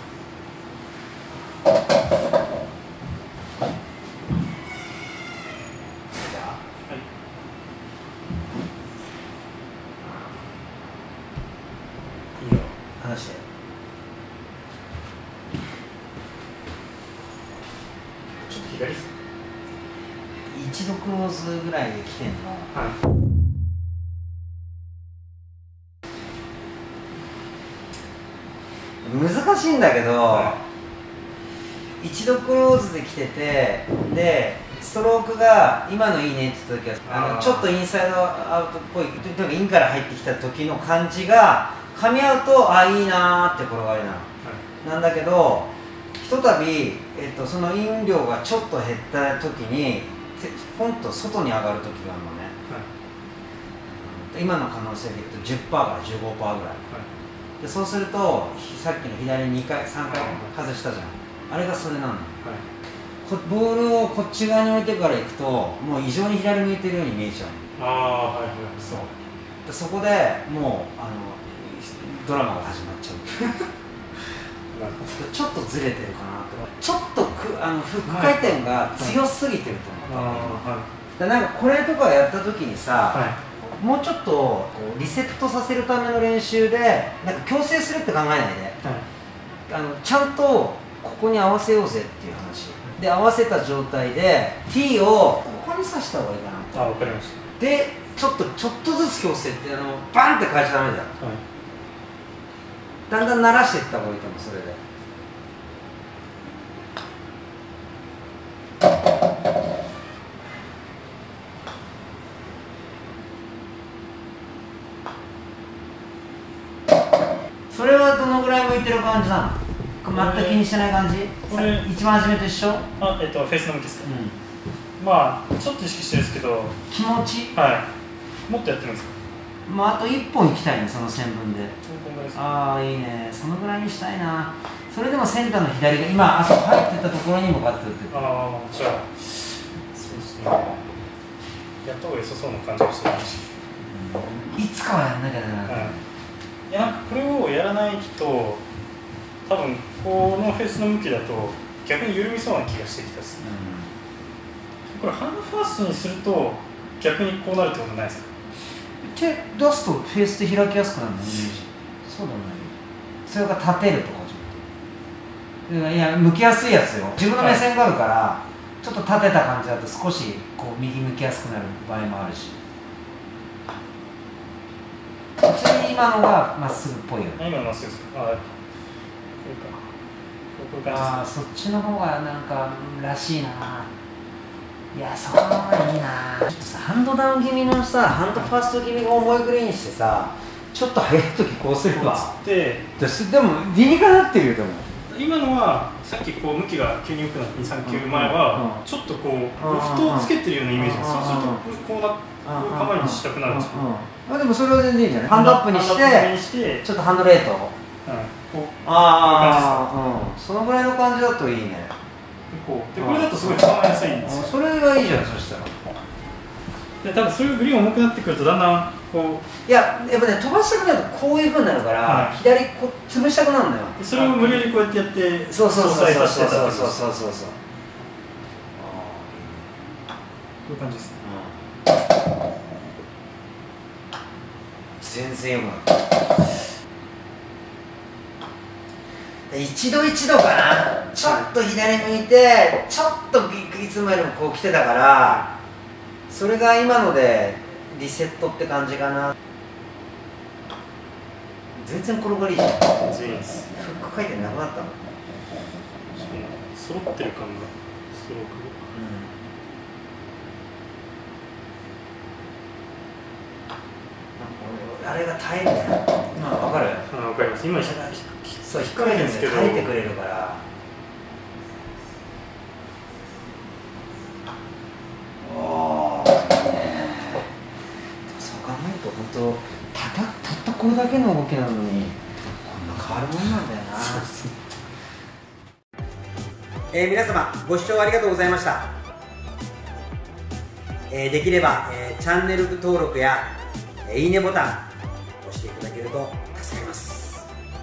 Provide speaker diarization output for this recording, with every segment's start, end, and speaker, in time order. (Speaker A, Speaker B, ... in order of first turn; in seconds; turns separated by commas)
Speaker A: 6.1-6.6, Speaker B: 12.4-12.7, Speaker A: 13.0-13.4, Speaker B: 18.4-19.1, Speaker A: 20.5-22.7, Speaker A: 29.0-30.6, Speaker B: 30.3-30.6, Speaker A: 32.0-44.3, Speaker B: 37.1-37.7, Speaker A: 44.8-52.6, Speaker A: 53.9-56.8, Speaker A: 57.6-62.4, Speaker B: 60.0-60.5, Speaker A: 63.2-67.7, Speaker B: 67.8-69.1, Speaker A: 68.8-69.1, Speaker A: 69.7-73.7, Speaker B: 74.7-75.2, Speaker A: 75.0-80.6, Speaker B: 78.1-79.2, Speaker B: 80.1-80.9, Speaker A: 81.2-83.2, Speaker B: 83.1-83.4, Speaker A: 83.8-88.8, Speaker A: 89.7-96.9, Speaker B: 96.7-97.4, Speaker A: 97.6-101.2, Speaker A: 103.1-104.8, Speaker A: 117.7-122.9, Speaker B: 120.1-120.6, Speaker B: 121.5-121.9, Speaker B: 123.0-124.1, Speaker A: 124.0-124.4, Speaker B: 125.0-126.8, Speaker A: 126.9-127.6, Speaker B: 127.5-127.9, Speaker B: 128.5-129.2, Speaker A: 129.7-131.8, Speaker B: 131.8-132.5, Speaker A: 132.3-138.2, Speaker B: 138.1-140.8, Speaker B: 141.8-143.5, Speaker A: 143.8-146.0, Speaker B: 145.7-146.0, Speaker B: 146.7-148.6, Speaker B: 149.5-153.5, Speaker A: 153.4-153.9, Speaker B: 154.9-158.3, Speaker A: 159.0-162.8, Speaker A: 163.3-164.7, Speaker A: 165.7-172.6, Speaker B: 167.4-167.6, Speaker A: 175.4-177.4, Speaker B: 177.4-178.5, Speaker B: 179.4-179.8, Speaker B: 180.6-181.3, Speaker A: 180.9-183.9, Speaker A: 184.9-192.3, Speaker B: 191.9-192.9, Speaker A: 193.0-194.9, Speaker B: 195.1-203.9, Speaker A: 197.8-198.8, Speaker A: 199.6-201.6, Speaker A: 202.4-207.8, Speaker B: 205.3-206.9, Speaker B: 208.1-209.9, Speaker A: 208.8-211.9, Speaker B: 212.5-214.5, Speaker A: 213.0-215.8, Speaker B: 217.0-219.4, Speaker A: 219.7-224.7, Speaker B: 222.1-222.4, Speaker B: 224.0-227.1, Speaker A: 225.5-227.6, Speaker A: 228.8-229.7, Speaker B: 230.7-231.2, Speaker A: 231.2-231.6, Speaker A: 235.0-236.4, Speaker A: 239.5-245.5, Speaker B: 241.2-241.5, Speaker B: 245.2-245.5, Speaker A: 246.3-249.3, Speaker A: 251.8-255.0, Speaker B: 253.0-253.7, Speaker B: 256.2-258.9, Speaker A: 258.9-259.3, Speaker A: 264.4-267.1, Speaker B: 267.1-270.0, Speaker A: 268.6-270.6, Speaker A: 275.4-277.5, Speaker A: 278.3-284.3, Speaker B: 283.9-284.6, Speaker A: 286.9-288.9, Speaker A: 291.1-293.5, Speaker A: 294.1-294.9, Speaker A: 295.4-297.5